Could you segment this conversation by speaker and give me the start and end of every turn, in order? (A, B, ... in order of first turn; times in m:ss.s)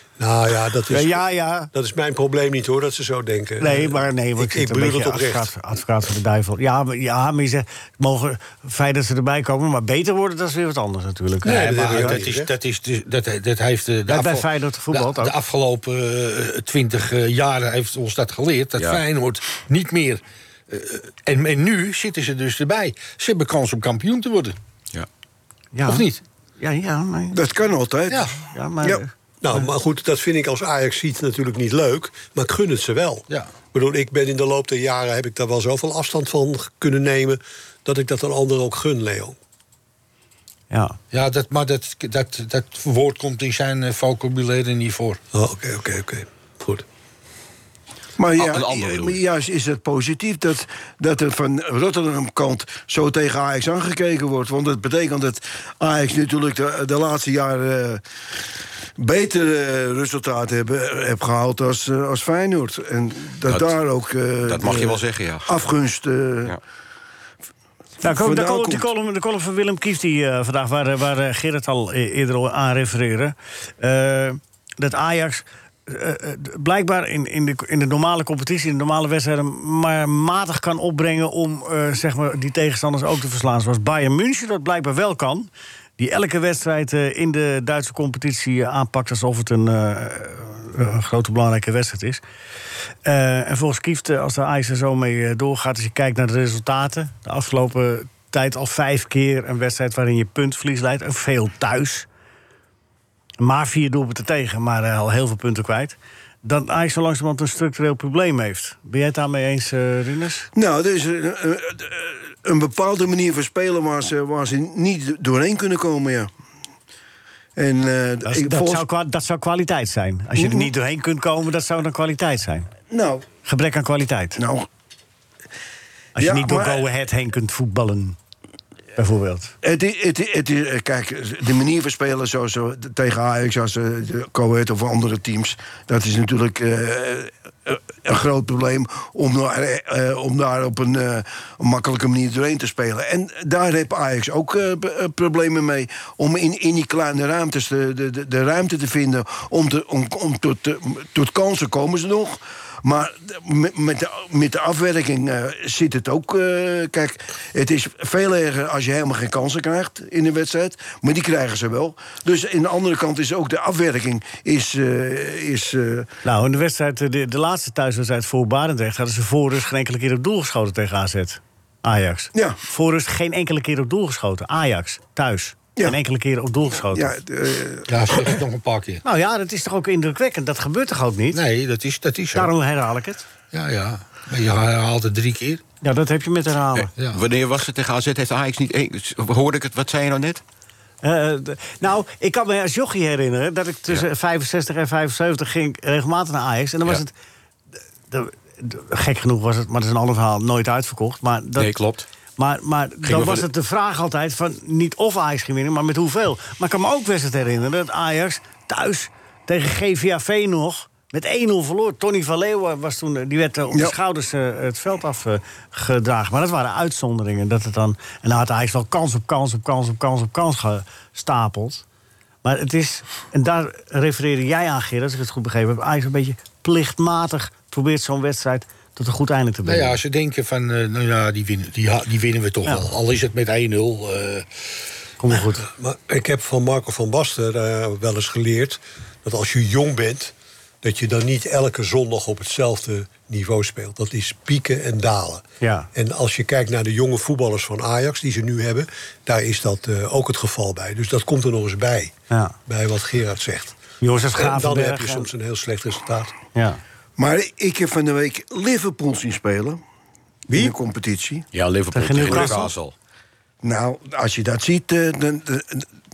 0:00.2-0:05.5 A
0:00.9-0:01.7 B
0:03.6-0:12.2 B
0:11.4-0:12.5 A
0:11.4-0:24.6 C
0:14.1-0:15.4 B
0:25.7-0:26.1 B
0:25.8-0:26.2 C
0:26.6-0:27.4 B
0:27.3-0:29.0 D
0:28.1-0:28.4 C
0:28.5-0:29.7 B
0:29.4-0:39.4 A
0:40.7-0:41.0 B
0:41.1-0:45.2 C
0:45.3-0:46.8 A
0:48.2-0:58.0 D
0:48.4-0:49.2 E
0:59.0-1:06.6 D
1:03.5-1:03.8 E
1:04.4-1:05.5 E
1:08.0-1:32.2 B
1:08.0-1:08.9 D
1:33.0-1:42.1 B
1:43.4-1:50.5 B
1:50.6-1:56.3 D
1:57.6-1:58.8 D
1:58.2-2:02.7 B
2:00.4-2:00.7 D
2:02.9-2:03.3 D
2:03.4-2:04.4 B
2:04.4-2:04.7 D
2:06.2-2:08.2 B
2:06.2-2:06.8 D
2:09.0-2:09.6 B
2:09.6-2:46.1 D
2:46.2-2:57.2 B
2:56.9-2:58.3 D
2:57.9-2:59.0 C
2:59.0-3:01.4 B
3:01.3-3:02.5 C
3:02.3-3:03.2 B
3:03.5-3:05.6 C
3:05.8-3:06.9 B
3:06.8-3:10.4 E
3:11.0-3:17.1 B
3:18.1-3:21.7 B
3:21.6-3:22.1 E
3:22.4-3:41.8 B
3:23.0-3:23.5 E
3:42.4-3:50.0 B
3:49.6-3:54.5 C
3:55.2-3:55.7 B
3:55.6-4:12.1 A
4:05.6-4:05.9 B
4:12.3-4:12.6 B
4:12.7-4:13.8 A
4:14.0-4:15.3 B
4:14.3-4:16.3 A
4:16.6-4:16.8 B
4:17.2-4:19.8 D
4:20.5-4:20.8 A
4:20.5-4:21.4 D
4:21.5-4:22.9 E
4:21.9-4:22.7 B
4:23.6-4:25.8 D